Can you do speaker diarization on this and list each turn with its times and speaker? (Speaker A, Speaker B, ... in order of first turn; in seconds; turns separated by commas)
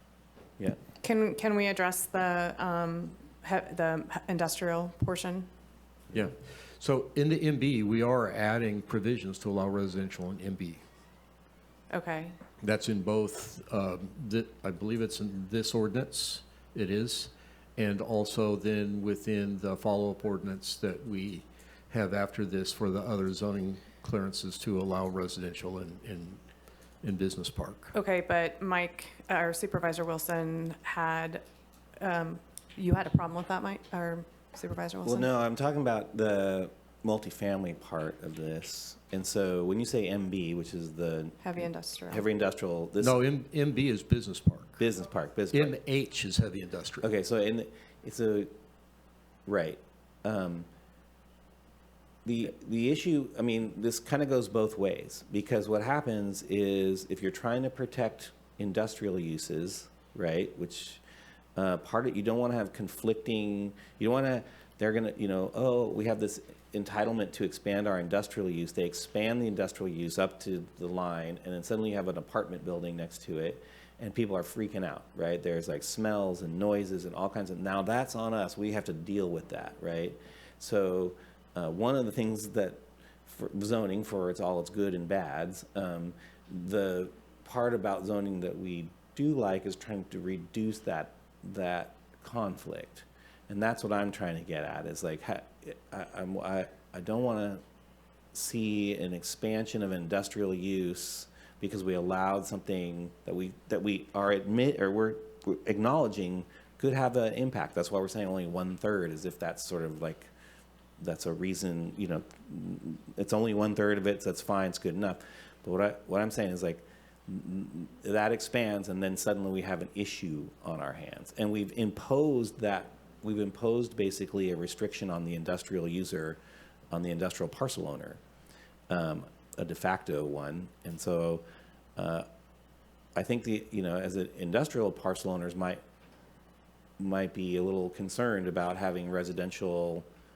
Speaker A: 1.0-5.5, Speaker B: 6.1-10.8, Speaker A: 11.9-12.4, Speaker B: 12.6-26.4, Speaker B: 27.0-27.9, Speaker A: 27.9-31.4, Speaker A: 32.0-35.3, Speaker C: 35.0-43.2, Speaker A: 41.4-42.2, Speaker B: 43.0-44.8, Speaker C: 44.8-45.8, Speaker B: 45.5-47.1, Speaker C: 47.0-48.5, Speaker C: 49.5-50.7, Speaker C: 52.2-61.0, Speaker C: 61.6-97.6, Speaker C: 98.3-110.3, Speaker C: 111.0-126.4, Speaker C: 126.9-128.2, Speaker C: 128.9-131.4, Speaker C: 132.0-132.3, Speaker C: 133.2-135.8, Speaker C: 137.0-140.1